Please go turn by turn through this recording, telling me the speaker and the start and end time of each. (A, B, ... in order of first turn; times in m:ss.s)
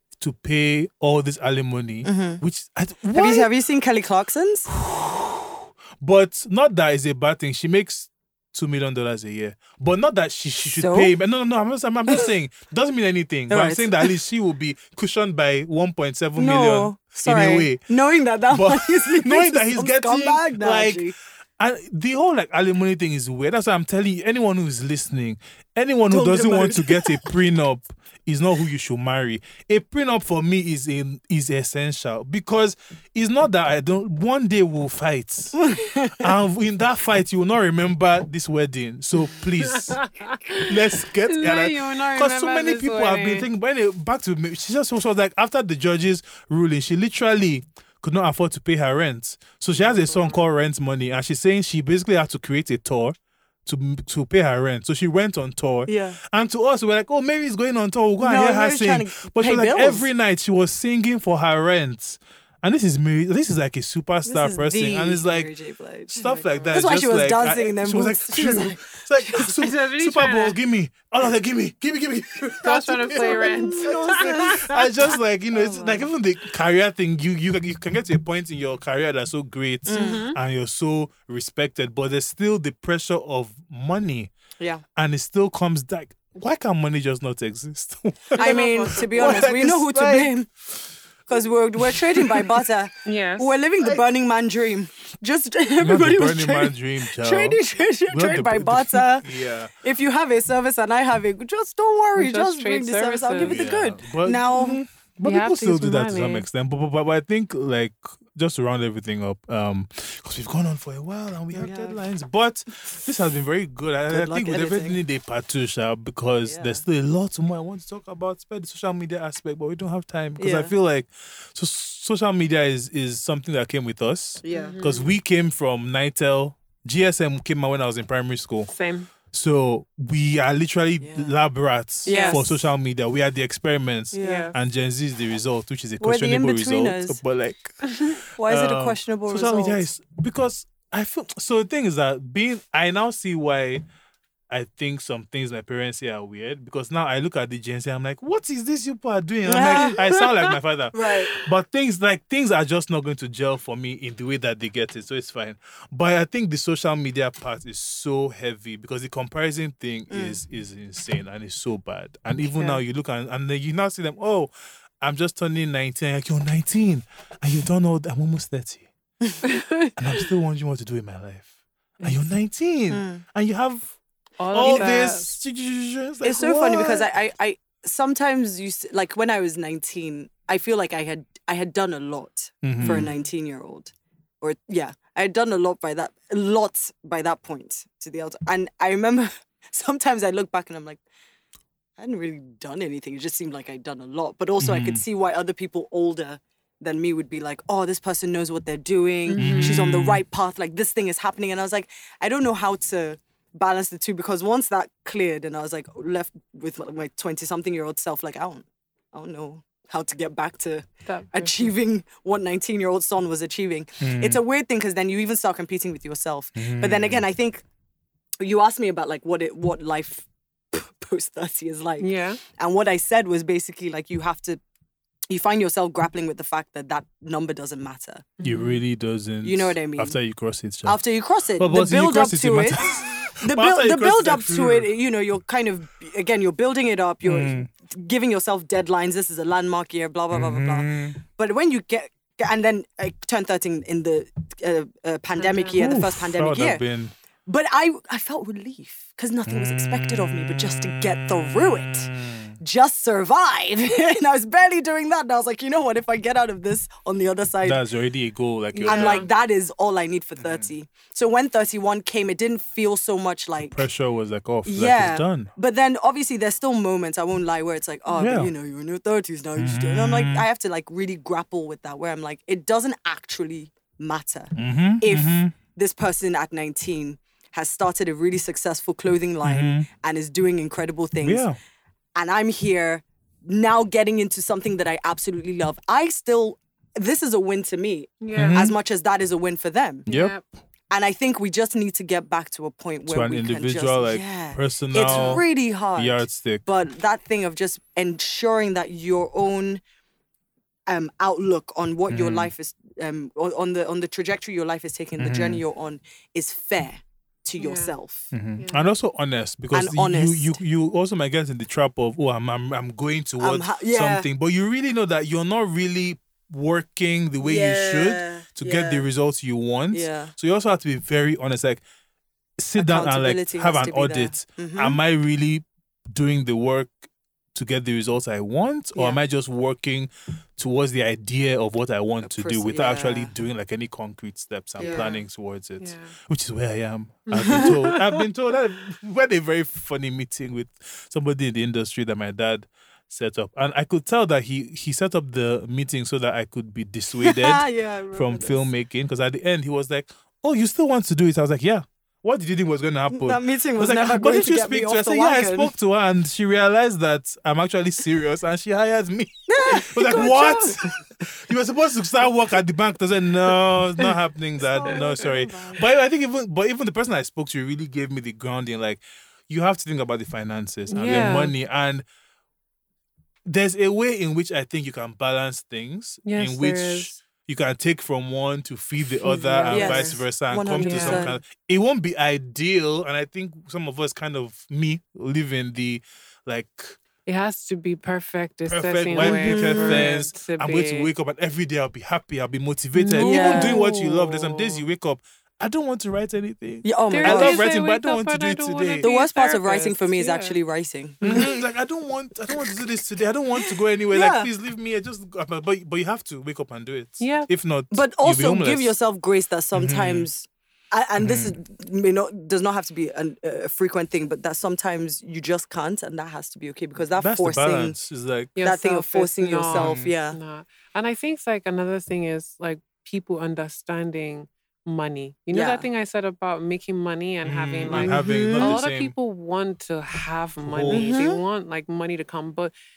0:00.2-0:03.5 A
0:02.0-0:02.4 B
0:03.1-0:04.7 B
0:04.7-0:17.9 A
0:10.7-0:11.1 B
0:13.5-0:14.1 B
0:16.4-0:21.1 B
0:18.5-0:40.0 A
0:26.1-0:27.3 B
0:35.6-0:36.3 B
0:39.6-0:43.5 C
0:40.6-1:05.5 A
0:55.9-0:56.2 B
0:58.2-1:00.1 B
1:04.2-1:09.5 B
1:06.1-1:24.3 A
1:06.2-1:06.8 C
1:09.4-1:10.6 C
1:12.6-1:14.7 C
1:13.1-1:16.1 B
1:19.9-1:20.3 B
1:19.9-1:20.4 C
1:25.0-1:30.8 A
1:28.3-1:29.4 C
1:28.4-1:30.5 B
1:31.3-1:44.8 B
1:31.8-1:32.6 A
1:33.0-1:33.5 C
1:35.8-1:37.6 A
1:38.1-1:39.7 A
1:42.2-1:43.6 C
1:43.4-2:08.7 A
1:45.2-1:46.5 C
1:51.5-1:52.0 B
1:54.1-1:55.0 B
1:56.5-1:56.8 B
2:00.4-2:00.7 B
2:04.4-2:04.8 B
2:04.5-2:05.2 C
2:08.7-2:09.1 C
2:09.3-2:23.8 A
2:11.0-2:11.3 B
2:12.0-2:12.6 B
2:12.1-2:12.5 C
2:14.1-2:14.5 B
2:14.2-2:14.6 C
2:16.0-2:17.2 B
2:18.4-2:19.9 B
2:24.5-2:48.9 A
2:29.5-2:31.4 B
2:40.1-2:40.4 B
2:49.4-2:50.0 C
2:50.0-2:54.0 A
2:52.0-2:52.3 C
2:52.9-2:53.2 B
2:54.4-2:55.4 C
2:54.5-2:57.1 A
2:54.6-2:55.1 B
2:56.2-3:11.0 B
3:02.6-3:03.1 A
3:12.0-3:37.6 B
3:14.6-3:15.0 A
3:19.3-3:19.8 C
3:19.4-3:20.2 A
3:31.1-3:31.7 C
3:34.0-3:34.4 A
3:36.6-3:37.2 A
3:38.4-3:44.6 B
3:42.0-3:42.4 C
3:45.3-3:48.3 B
3:48.4-3:48.8 C
3:48.4-3:51.0 A
3:49.4-3:50.2 B
3:50.8-4:06.8 B
3:51.6-3:54.9 A
3:57.2-3:57.7 A
4:00.3-4:01.2 A
4:05.4-4:06.0 C
4:05.8-4:07.1 A
4:07.5-4:17.8 B
4:09.5-4:12.6 A
4:17.6-4:19.3 A
4:18.7-4:19.3 C
4:18.9-4:23.9 B
4:20.4-4:20.7 A
4:23.7-4:25.5 A
4:24.6-4:41.4 B
4:28.2-4:28.5 A
4:29.6-4:30.5 A
4:34.6-4:35.6 A
4:39.4-4:39.9 A
4:41.2-4:41.6 A
4:42.2-4:50.1 B
4:48.2-4:48.7 C
4:48.3-4:48.7 A
4:50.1-4:50.6 A
4:50.1-4:50.4 C
4:50.9-4:59.8 B
4:53.1-4:56.7 A
5:00.9-5:08.3 B
5:02.1-5:02.5 A
5:05.2-5:05.6 A
5:07.6-5:07.9 C
5:08.3-5:21.8 A
5:08.6-5:08.9 C
5:09.7-5:10.6 B
5:13.4-5:14.3 B
5:17.4-5:19.1 B
5:19.9-5:20.3 B
5:22.6-6:12.0 A
5:22.8-5:25.0 B
5:29.0-5:29.2 B
5:32.2-5:33.3 B
5:34.8-5:35.2 B
5:34.8-5:35.2 C
5:35.8-5:36.2 C
5:37.3-5:37.9 C
5:37.4-5:37.8 B
5:47.2-5:48.7 B
5:53.1-5:55.7 B
5:59.5-6:00.8 B
6:00.1-6:00.7 C
6:04.7-6:05.9 C
6:04.8-6:05.4 B
6:10.9-6:11.5 C
6:13.5-6:27.0 A
6:16.3-6:17.2 C
6:19.2-6:21.3 C
6:19.7-6:21.4 B
6:27.2-6:31.1 C
6:28.7-6:39.1 A
6:29.2-6:30.2 B
6:33.0-6:34.8 C
6:33.2-6:33.8 B
6:36.8-6:37.6 B
6:37.1-6:40.6 C
6:39.0-6:41.5 B
6:41.2-6:41.5 C
6:41.2-6:48.9 A
6:43.7-6:44.5 B
6:47.2-6:47.5 C
6:47.9-6:58.0 B
6:49.7-6:50.3 A
6:51.2-6:51.6 A
6:57.2-6:58.6 A
6:58.6-7:12.7 C
6:58.6-7:00.4 B
6:59.7-7:00.1 A
7:05.5-7:05.9 B
7:07.4-7:09.1 A
7:07.9-7:08.8 B
7:10.6-7:11.1 A
7:10.9-7:11.4 B